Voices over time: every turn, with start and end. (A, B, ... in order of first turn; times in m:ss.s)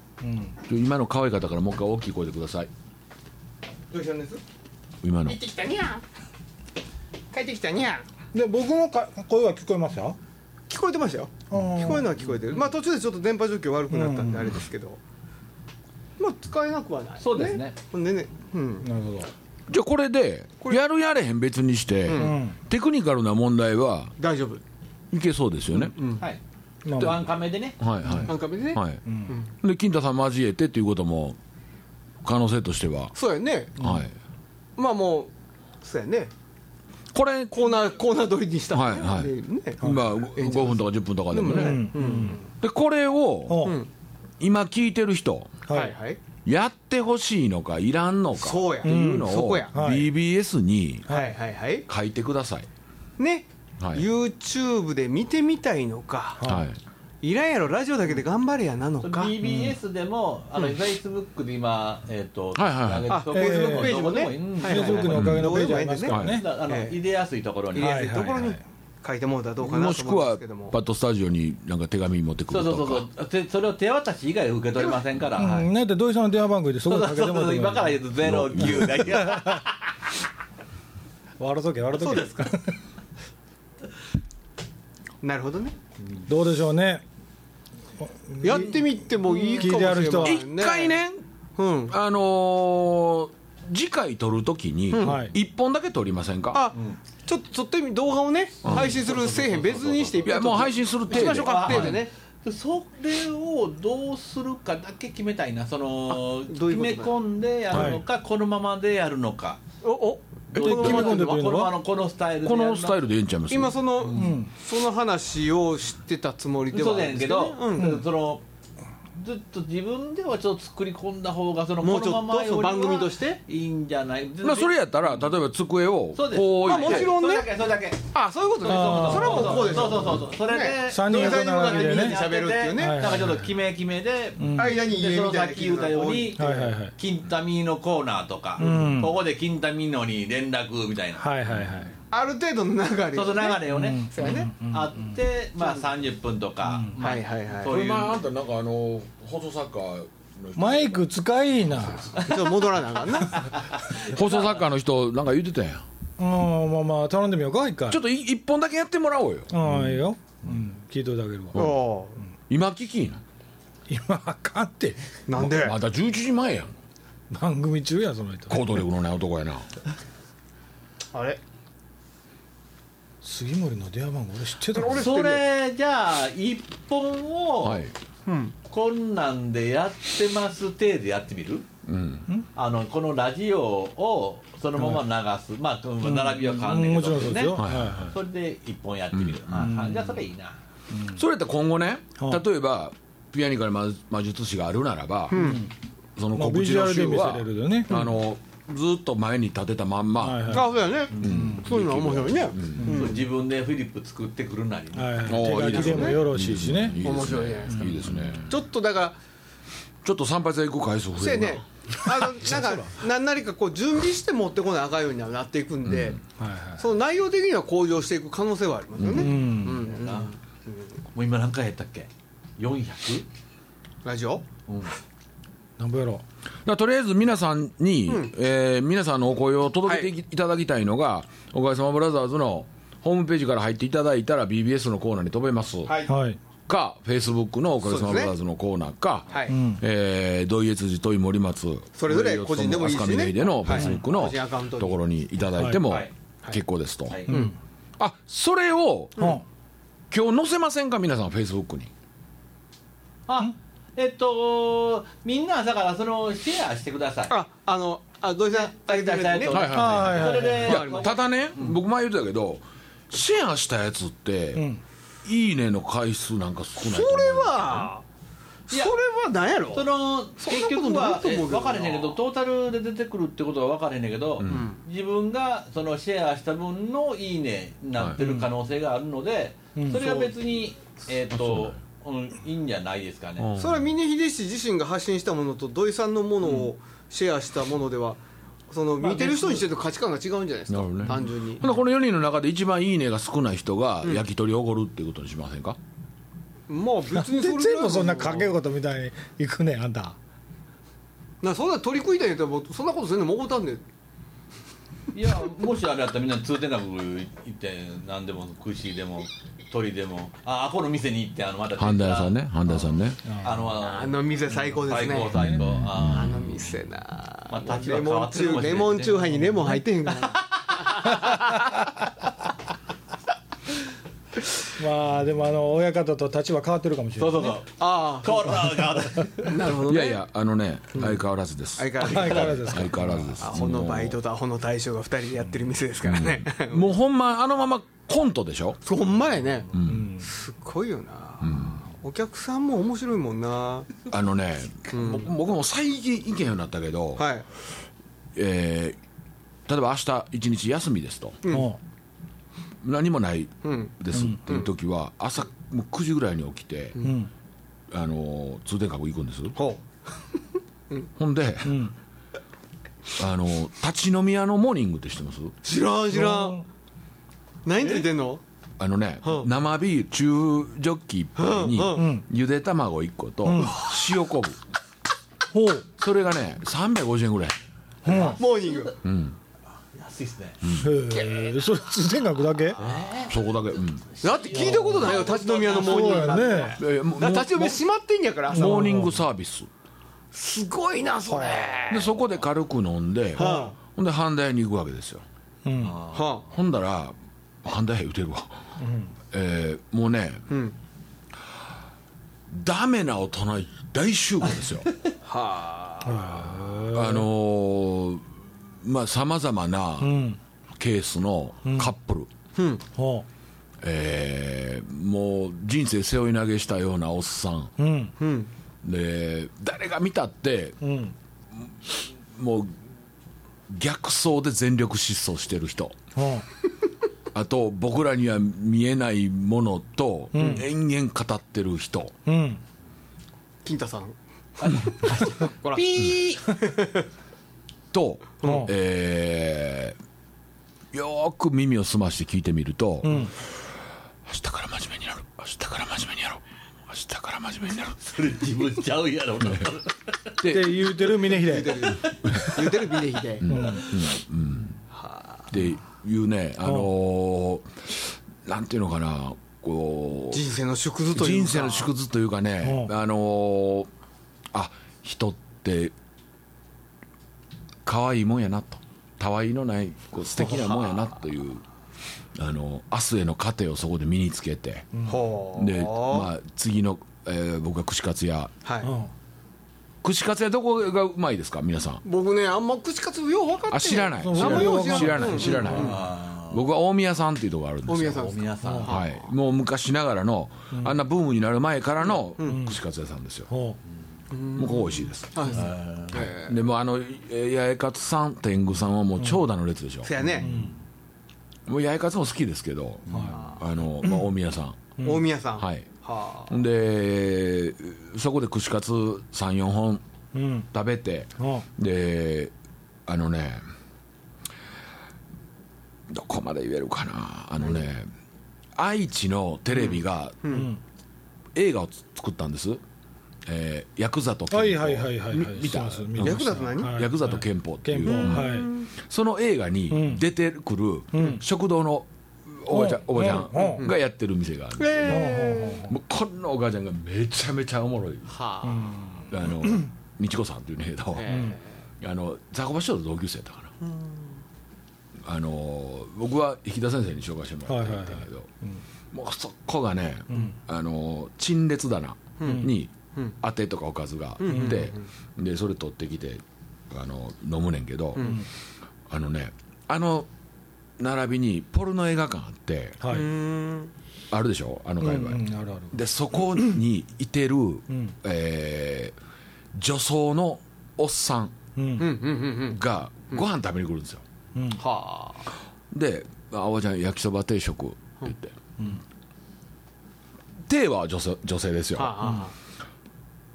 0:00.2-0:00.5 A
0:00.7-0:02.7 B
0:03.9-0:04.4 C
0:05.0-0:05.4 B
0:05.3-0:06.0 C
0:07.3-0:08.0 C
0:08.3-0:10.2 A
0:10.7-0:15.0 C
0:11.5-0:12.1 A
0:13.9-0:14.6 A
0:16.2-0:18.9 C
0:17.2-0:17.8 D
0:18.8-0:19.3 A
0:19.7-0:24.2 B
0:22.1-0:22.4 C
0:22.1-0:22.6 A
0:24.2-0:24.6 C
0:25.1-0:25.9 B
0:25.7-0:26.2 C
0:26.8-0:27.3 A
0:26.9-0:27.8 D
0:27.8-0:29.0 B
0:28.2-0:29.5 C
0:29.0-0:29.3 A
0:29.6-0:31.4 B
0:32.2-0:33.1 B
0:33.1-0:33.8 C
0:33.8-0:34.1 B
0:34.8-0:35.3 C
0:35.8-0:36.3 C
0:37.1-0:37.6 B
0:37.5-0:42.4 C
0:38.7-0:41.9 B
0:41.4-0:42.4 A
0:42.6-0:43.7 B
0:43.5-0:43.8 A
0:43.6-0:43.9 C
0:44.4-0:45.6 B
0:45.7-0:45.9 A
0:45.7-0:46.2 C
0:46.4-0:51.1 B
0:48.4-0:49.7 C
0:48.8-0:50.1 A
0:51.1-0:51.3 A
0:51.1-0:51.8 C
0:51.9-0:52.7 B
0:53.2-0:56.4 C
0:53.8-0:54.1 B
0:56.4-0:56.6 A
0:56.4-0:56.8 B
0:57.2-0:59.4 C
0:59.0-1:05.2 D
0:59.4-0:59.8 A
1:02.5-1:03.2 B
1:03.1-1:07.0 C
1:03.3-1:06.4 A
1:05.1-1:06.4 B
1:06.2-1:08.2 D
1:07.7-1:10.7 C
1:07.8-1:08.6 A
1:09.6-1:13.0 B
1:12.5-1:15.7 D
1:14.8-1:15.6 C
1:15.4-1:18.0 A
1:16.8-1:19.8 D
1:18.2-1:19.2 B
1:19.0-1:19.6 A
1:21.4-1:22.7 A
1:21.9-1:22.5 C
1:25.2-1:25.8 C
1:26.3-1:27.0 A
1:28.0-1:28.8 A
1:28.4-1:31.0 C
1:29.5-1:30.4 A
1:30.2-1:31.2 B
1:31.6-1:31.9 C
1:31.9-1:36.6 B
1:34.9-1:35.2 C
1:35.0-1:35.3 A
1:36.5-1:42.1 C
1:36.7-1:37.0 D
1:38.6-1:38.9 B
1:38.6-1:49.6 D
1:40.2-1:42.0 B
1:46.1-1:47.1 C
1:47.7-1:48.0 B
1:47.7-1:48.0 A
1:49.8-1:51.5 C
1:50.5-1:53.0 D
1:50.5-1:51.0 B
1:50.6-1:51.7 A
1:52.4-1:53.8 B
1:53.5-1:58.0 C
1:54.1-1:54.5 A
1:56.7-1:58.4 D
1:57.8-1:58.0 A
1:59.2-2:05.2 D
2:01.8-2:03.3 C
2:04.4-2:07.1 B
2:06.1-2:21.2 D
2:06.6-2:07.5 C
2:08.1-2:13.2 C
2:08.6-2:10.1 A
2:10.9-2:12.2 A
2:12.7-2:13.5 A
2:14.4-2:14.8 A
2:14.5-2:16.7 C
2:16.4-2:16.9 A
2:18.6-2:19.1 C
2:18.6-2:19.2 A
2:21.2-2:21.9 A
2:22.1-2:24.5 C
2:23.1-2:28.2 D
2:23.7-2:25.1 A
2:26.7-2:26.9 A
2:27.0-2:27.7 C
2:27.6-2:31.0 B
2:30.6-2:32.1 A
2:31.7-2:32.4 B
2:32.2-2:32.5 D
2:32.2-2:33.4 C
2:33.3-2:34.6 D
2:33.9-2:35.8 B
2:36.2-2:38.0 A
2:37.9-2:39.9 B
2:39.5-2:41.7 A
2:41.5-2:41.8 B
2:41.5-2:42.2 C
2:42.5-2:43.2 B
2:43.9-2:45.0 A
2:45.3-2:45.8 C
2:45.4-2:46.7 B
2:47.3-2:48.8 A
2:48.5-2:49.7 B
2:51.1-2:51.4 C
2:53.2-2:55.2 A
2:54.7-2:55.5 C
2:54.9-2:57.8 D
2:57.6-2:57.9 B
2:58.2-2:58.5 C
2:58.7-3:01.6 D
3:01.8-3:02.3 B
3:02.5-3:10.6 D
3:04.8-3:05.0 A
3:06.0-3:08.2 A
3:07.5-3:08.1 B
3:09.1-3:09.8 B
3:09.6-3:10.1 A
3:10.9-3:11.2 A
3:11.1-3:15.6 B
3:15.3-3:15.7 C
3:15.3-3:15.7 A
3:16.2-3:23.1 B
3:16.3-3:18.0 A
3:20.2-3:20.7 A
3:20.5-3:23.2 C
3:21.2-3:21.6 A
3:22.8-3:25.3 D
3:24.9-3:27.0 A
3:25.2-3:28.6 B
3:25.6-3:26.2 C
3:27.0-3:29.2 C
3:27.7-3:28.3 A
3:30.0-3:31.6 B
3:31.2-3:36.2 C
3:32.2-3:32.9 A
3:35.8-3:36.2 B
3:36.4-3:36.8 A
3:36.8-3:40.8 C
3:39.0-3:39.4 B
3:39.1-3:39.8 A
3:39.7-3:40.3 D
3:41.1-3:43.3 D
3:44.0-3:44.4 C
3:44.7-3:44.9 D
3:45.8-3:46.2 A
3:46.6-3:55.9 B
3:55.8-3:56.2 C
3:56.1-3:56.4 A
3:56.7-4:07.2 B
3:57.8-3:58.3 C
3:59.3-3:59.6 C
3:59.5-3:59.8 A
4:02.0-4:05.0 C
4:05.8-4:06.1 D
4:07.3-4:07.5 A
4:07.3-4:07.5 C
4:08.0-4:09.4 B
4:09.2-4:09.4 C
4:09.2-4:09.4 A
4:10.1-4:11.9 B
4:13.3-4:17.3 D
4:17.3-4:21.2 C
4:18.5-4:21.8 D
4:19.5-4:24.7 B
4:19.7-4:20.8 A
4:24.6-4:24.8 A
4:25.2-4:27.9 B
4:26.8-4:28.0 C
4:28.7-4:32.2 C
4:29.7-4:43.5 D
4:34.4-4:34.7 B
4:34.5-4:34.8 C
4:38.2-4:38.5 A
4:39.8-4:40.3 A
4:41.3-4:41.8 B
4:43.4-4:43.9 B
4:43.6-4:51.7 C
4:49.0-4:49.6 D
4:50.7-4:55.8 B
4:56.7-4:58.6 C
4:57.1-5:00.2 A
5:01.4-5:03.8 C
5:05.1-5:12.3 D
5:11.8-5:13.2 B
5:13.4-5:14.2 D
5:13.8-5:15.4 C
5:14.8-5:16.6 D
5:15.4-5:16.4 B
5:16.0-5:20.4 C
5:17.5-5:19.4 D
5:20.1-5:21.6 D
5:24.8-5:27.6 A
5:27.2-5:29.7 D
5:27.8-5:28.8 C
5:29.4-5:30.2 C
5:29.7-5:34.2 B
5:30.9-5:31.2 C
5:31.8-5:36.9 C
5:32.0-5:33.3 A
5:36.0-5:38.8 B
5:38.8-5:44.0 C
5:39.7-5:40.1 B
5:39.9-5:40.3 A
5:41.4-5:41.8 B
5:44.1-5:47.3 B
5:44.9-5:45.3 C
5:47.2-5:47.4 C
5:48.3-5:49.0 B
5:49.7-5:51.4 B
5:51.4-5:51.7 C
5:51.5-5:51.8 A
5:52.8-5:57.0 B
5:53.6-5:53.9 C
5:54.1-5:54.4 A
5:57.0-5:57.3 A
5:57.9-5:59.6 B
5:59.6-5:59.8 C
6:01.2-6:01.9 B
6:01.6-6:01.9 A
6:03.2-6:05.6 B
6:05.6-6:06.6 C
6:06.1-6:06.6 A
6:07.6-6:08.4 C
6:08.8-6:14.6 B
6:11.4-6:12.1 C
6:11.9-6:12.2 A
6:13.4-6:13.8 A
6:15.5-6:15.9 A
6:16.0-6:17.6 B
6:18.0-6:18.4 A
6:18.0-6:19.0 D
6:18.1-6:18.9 C
6:19.0-6:19.4 B
6:19.9-6:20.6 D
6:20.6-6:20.9 B
6:20.8-6:22.8 A
6:21.1-6:21.4 C
6:22.8-6:23.4 D
6:23.3-6:24.0 B
6:24.1-6:26.8 D
6:24.2-6:29.0 C
6:24.5-6:25.2 A
6:25.7-6:26.8 A
6:26.8-6:27.8 B
6:28.5-6:29.7 B
6:28.5-6:29.2 A
6:30.3-6:32.2 C
6:31.3-6:31.7 A
6:31.9-6:35.2 B
6:33.4-6:33.7 A
6:33.4-6:33.8 C
6:35.6-6:36.0 A
6:35.8-6:36.3 D
6:36.1-6:36.5 C
6:36.5-6:38.7 B
6:38.8-6:39.1 A
6:39.3-6:40.4 B
6:40.5-6:40.7 C
6:42.5-6:44.9 B
6:45.2-6:46.5 C
6:46.0-6:47.3 A
6:46.9-6:48.3 B
6:48.8-6:50.2 B
6:50.0-6:50.4 A
6:50.8-6:52.3 B
6:51.6-6:51.9 A
6:52.6-6:52.8 C
6:52.9-6:53.2 A
6:53.8-6:57.7 B
6:57.8-6:58.1 A
6:58.2-6:58.5 C
6:58.8-7:00.8 B
7:00.8-7:01.1 A
7:01.6-7:02.8 B
7:03.7-7:05.9 B
7:06.1-7:06.4 A
7:07.3-7:12.1 B
7:10.3-7:10.6 A
7:10.4-7:10.6 C
7:12.2-7:12.6 A
7:13.6-7:17.0 C
7:14.6-7:16.5 D
7:17.9-7:20.0 B
7:18.4-7:18.7 C
7:18.4-7:18.7 A
7:20.9-7:23.5 B
7:23.0-7:23.3 A
7:24.2-7:28.0 B
7:28.0-7:30.4 D
7:30.4-7:31.1 B
7:30.4-7:31.9 A
7:31.3-7:33.7 C
7:32.2-7:32.7 B
7:33.4-7:34.8 B
7:33.4-7:33.8 A
7:34.9-7:35.5 C
7:35.5-7:40.5 B
7:36.6-7:36.9 A
7:40.3-7:41.9 C
7:41.1-7:43.9 B
7:42.6-7:42.9 A
7:44.5-7:45.9 B
7:47.8-7:51.6 B
7:50.4-7:51.0 C
7:52.3-7:54.9 B
7:54.9-7:55.2 A
7:55.0-7:56.3 C
7:55.6-7:58.5 B
7:58.6-7:58.9 C
7:58.8-7:59.1 A
8:00.0-8:02.0 B
8:02.0-8:06.0 C
8:03.7-8:13.5 B
8:04.2-8:05.6 A
8:05.5-8:06.6 D
8:07.9-8:09.3 C
8:08.1-8:09.0 D
8:12.1-8:12.6 C
8:12.4-8:12.8 A
8:13.5-8:13.8 A
8:14.3-8:16.6 C
8:14.6-8:15.6 B
8:15.5-8:16.2 D
8:16.1-8:20.1 B
8:20.0-8:20.6 C
8:20.4-8:20.7 A
8:21.7-8:24.8 B
8:23.1-8:23.3 D
8:23.1-8:23.4 A
8:23.3-8:23.6 C
8:25.0-8:26.5 C
8:25.6-8:25.8 B
8:26.5-8:30.0 B
8:30.3-8:30.7 A
8:30.7-8:32.5 B
8:31.4-8:31.6 A
8:33.1-8:33.6 B
8:36.1-8:38.1 B
8:38.8-8:40.4 B
8:39.7-8:40.7 C
8:40.5-8:40.8 A
8:41.5-8:42.8 B
8:43.4-8:58.3 B
8:44.5-8:48.7 A
8:46.2-8:47.0 C
8:48.0-8:48.9 C
8:49.9-8:50.2 A
8:51.1-8:51.4 A
8:52.7-8:53.8 A
8:54.8-8:55.9 C
8:55.1-8:55.9 A
8:58.3-8:59.2 C
8:58.6-8:59.8 A
8:59.3-9:03.7 B
9:01.1-9:01.6 C
9:01.3-9:01.6 A
9:03.8-9:04.3 C
9:05.2-9:08.5 B
9:07.7-9:08.8 A
9:09.1-9:18.4 B
9:12.4-9:13.3 C
9:14.4-9:15.0 C
9:14.5-9:14.8 A
9:18.2-9:18.4 C
9:19.1-9:20.3 B
9:21.0-9:23.0 B
9:23.0-9:23.3 A
9:23.0-9:23.9 C
9:24.3-9:29.1 B
9:25.0-9:25.9 A
9:29.7-9:31.5 B
9:31.8-9:32.1 A
9:32.0-9:32.8 C
9:32.7-9:34.2 B
9:34.6-9:34.8 A
9:34.7-9:35.5 C
9:35.9-9:38.5 B
9:40.7-9:42.4 B
9:42.0-9:42.5 C